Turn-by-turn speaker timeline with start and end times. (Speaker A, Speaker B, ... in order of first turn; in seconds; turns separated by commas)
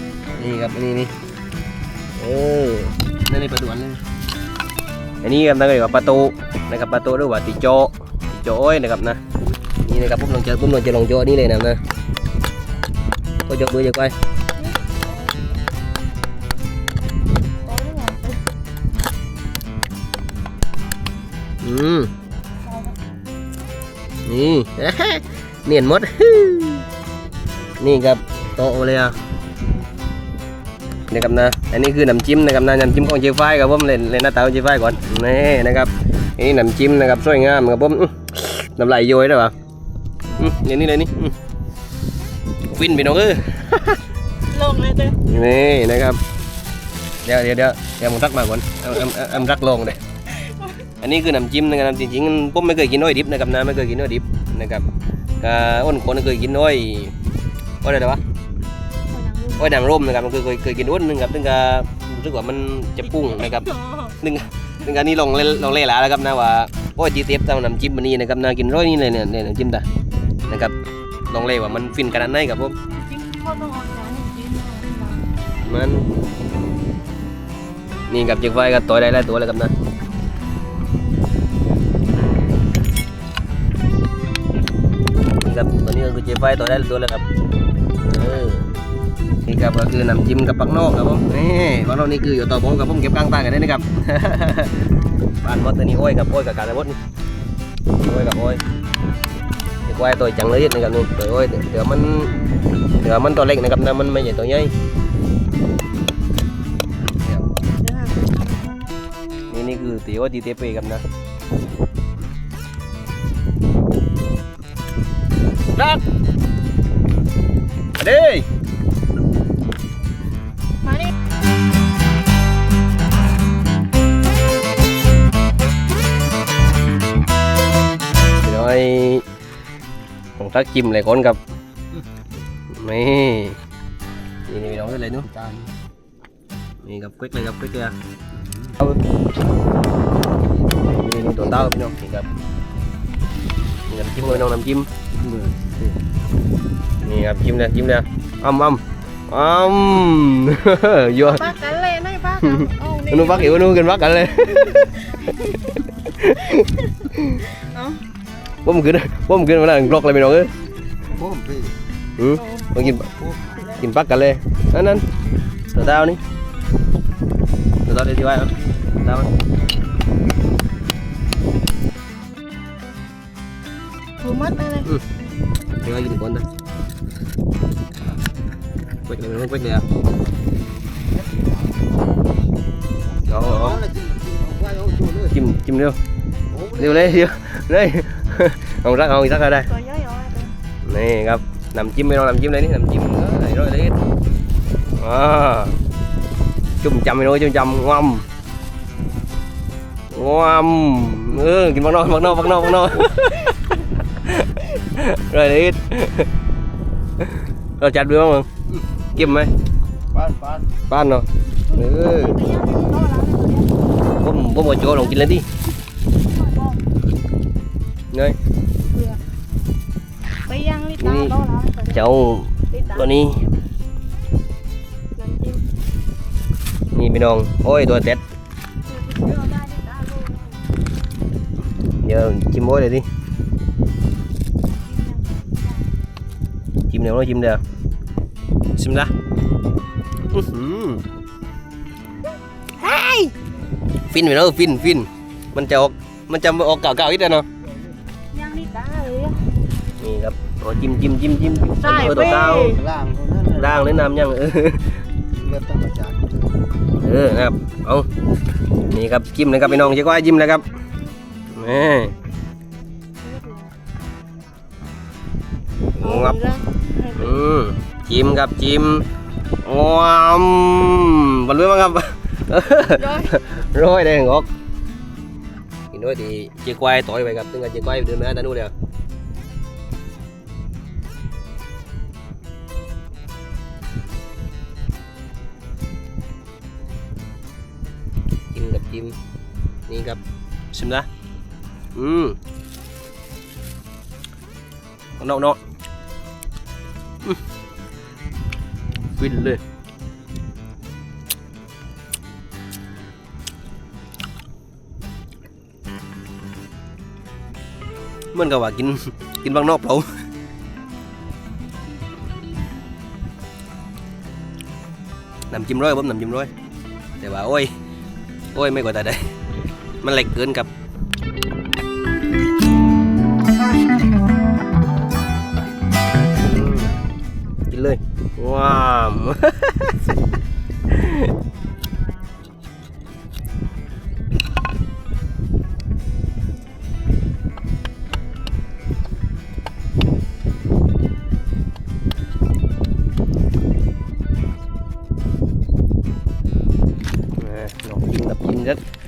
Speaker A: 0.4-1.1, Speaker A: 2.2-4.0, Speaker A: 5.2-9.2, Speaker A: 9.8-11.8, Speaker A: 13.5-14.1, Speaker B: 14.6-15.5, Speaker B: 17.6-18.5, Speaker A: 21.6-22.1, Speaker B: 22.6-22.9, Speaker A: 24.2-26.9, Speaker A: 27.8-29.1, Speaker A: 31.1-39.5, Speaker A: 40.3-41.4, Speaker A: 42.7-44.0, Speaker B: 44.5-45.2, Speaker A: 45.2-46.2, Speaker A: 47.2-50.0, Speaker B: 50.3-50.7, Speaker A: 51.0-54.9, Speaker A: 55.4-57.2, Speaker A: 57.8-58.2, Speaker B: 59.1-59.8, Speaker A: 59.6-69.9, Speaker B: 63.6-64.1, Speaker A: 70.5-70.8, Speaker A: 71.3-72.8, Speaker B: 73.0-75.3, Speaker A: 75.6-76.1, Speaker A: 78.1-79.7, Speaker A: 85.4-87.2, Speaker A: 88.0-88.7, Speaker A: 89.4-94.9, Speaker A: 95.4-97.0, Speaker A: 98.0-98.6, Speaker A: 99.9-102.3, Speaker A: 103.0-104.7, Speaker B: 107.8-108.8, Speaker A: 109.5-111.0, Speaker A: 115.7-116.0, Speaker A: 118.0-118.5, Speaker B: 120.8-121.1, Speaker A: 128.4-129.2, Speaker A: 130.4-131.4, Speaker A: 132.7-133.6, Speaker A: 134.5-135.3, Speaker C: 135.3-135.7, Speaker A: 136.8-137.9, Speaker A: 140.8-142.3, Speaker A: 143.9-144.9, Speaker C: 145.3-145.9, Speaker A: 147.0-151.6, Speaker B: 151.3-153.7, Speaker A: 152.4-157.4, Speaker B: 157.5-158.0, Speaker A: 158.7-160.5, Speaker C: 161.1-161.8, Speaker A: 162.2-163.1, Speaker B: 162.4-162.8, Speaker C: 163.2-163.8, Speaker A: 163.7-165.1, Speaker A: 165.7-166.2, Speaker A: 167.9-169.3, Speaker B: 174.2-174.9, Speaker A: 175.8-176.4, Speaker A: 179.1-179.9, Speaker C: 181.2-181.8, Speaker A: 183.3-183.9, Speaker C: 183.3-185.2, Speaker A: 185.2-186.0, Speaker A: 186.6-189.7, Speaker B: 189.7-190.6, Speaker A: 190.8-194.0, Speaker A: 195.0-195.8, Speaker A: 196.8-198.2, Speaker A: 200.1-206.3, Speaker A: 207.2-208.5, Speaker A: 209.1-209.5, Speaker C: 210.1-210.6, Speaker A: 210.9-212.4, Speaker B: 212.0-213.8, Speaker A: 214.2-215.5, Speaker B: 216.3-216.8, Speaker A: 218.1-218.4, Speaker B: 218.9-219.2, Speaker B: 220.4-221.9, Speaker A: 221.0-221.3, Speaker A: 221.9-223.4, Speaker B: 222.7-223.0, Speaker B: 225.1-225.6, Speaker A: 226.9-228.2, Speaker B: 228.8-230.6, Speaker A: 231.9-233.1, Speaker B: 234.7-235.8, Speaker A: 236.9-237.6, Speaker A: 238.8-239.1, Speaker A: 240.3-241.0, Speaker B: 242.8-243.3, Speaker A: 244.1-247.4, Speaker B: 248.3-249.4, Speaker A: 250.0-252.8, Speaker B: 251.8-252.9, Speaker C: 252.6-253.6, Speaker A: 253.4-254.9, Speaker C: 255.4-256.4, Speaker A: 256.9-258.1, Speaker A: 258.9-260.7, Speaker A: 261.5-262.1, Speaker B: 263.2-263.7, Speaker A: 266.0-266.4, Speaker B: 266.0-267.4, Speaker A: 267.1-269.1, Speaker A: 269.6-274.5, Speaker B: 272.9-273.3, Speaker A: 275.9-278.7, Speaker A: 288.5-289.2, Speaker A: 289.9-290.2, Speaker A: 290.7-291.1, Speaker A: 291.9-292.4, Speaker A: 295.2-295.6, Speaker A: 299.2-299.6, Speaker A: 308.3-310.1, Speaker A: 315.5-316.5, Speaker A: 317.2-317.7, Speaker A: 318.5-319.3, Speaker A: 320.0-320.7, Speaker A: 326.4-326.9, Speaker A: 327.7-330.1, Speaker A: 330.9-331.3, Speaker A: 347.4-348.8